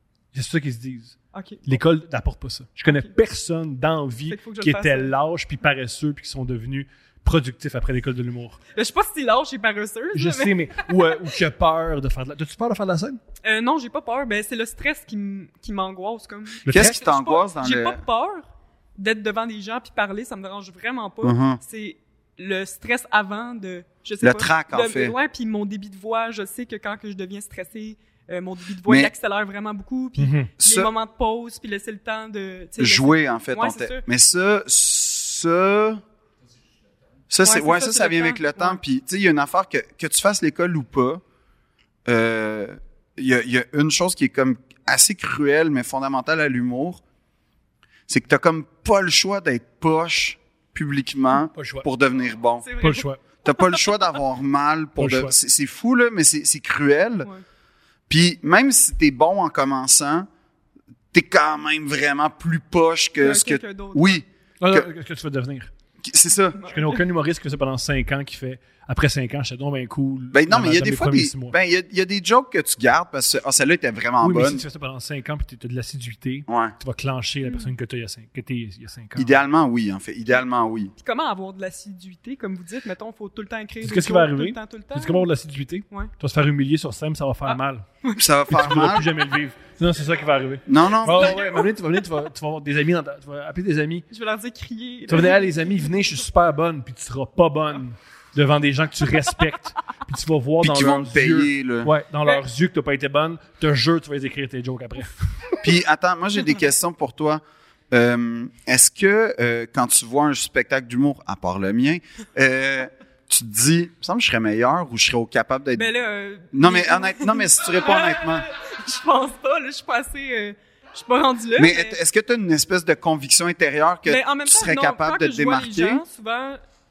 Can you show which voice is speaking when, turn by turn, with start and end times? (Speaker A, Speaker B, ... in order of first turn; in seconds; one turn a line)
Speaker A: 0.3-8.6
Speaker B: 1.3-1.7
Speaker B: 4.3-5.1
Speaker B: 8.8-11.3
Speaker A: 10.1-13.2
Speaker B: 13.4-34.0
Speaker A: 16.6-17.0
Speaker C: 16.7-18.0
Speaker C: 21.2-21.6
Speaker C: 24.2-25.1
Speaker C: 28.9-29.1
Speaker A: 30.2-30.5
Speaker C: 30.6-30.9
Speaker C: 32.8-36.0
Speaker C: 37.3-41.2
Speaker B: 37.4-38.8
Speaker C: 42.1-47.0
Speaker C: 48.1-52.7
Speaker A: 51.5-51.9
Speaker B: 52.6-53.5
Speaker A: 52.8-53.2
Speaker C: 53.4-57.3
Speaker A: 55.0-55.4
Speaker C: 58.1-60.3
Speaker C: 61.1-64.9
Speaker B: 63.2-64.2
Speaker A: 64.6-65.7
Speaker C: 66.0-66.6
Speaker B: 66.6-67.0
Speaker A: 66.7-71.6
Speaker C: 70.3-74.6
Speaker A: 74.2-79.4
Speaker C: 76.5-76.8
Speaker C: 79.2-80.9
Speaker B: 81.0-85.3
Speaker A: 83.8-87.9
Speaker B: 87.5-88.3
Speaker C: 88.2-89.1
Speaker A: 88.5-94.1
Speaker C: 90.7-91.4
Speaker B: 91.1-91.6
Speaker B: 94.1-95.8
Speaker A: 95.1-105.6
Speaker C: 100.6-101.9
Speaker C: 105.6-107.4
Speaker C: 107.9-115.9
Speaker B: 115.8-122.0
Speaker C: 116.5-118.5
Speaker C: 121.6-126.0
Speaker B: 124.1-126.6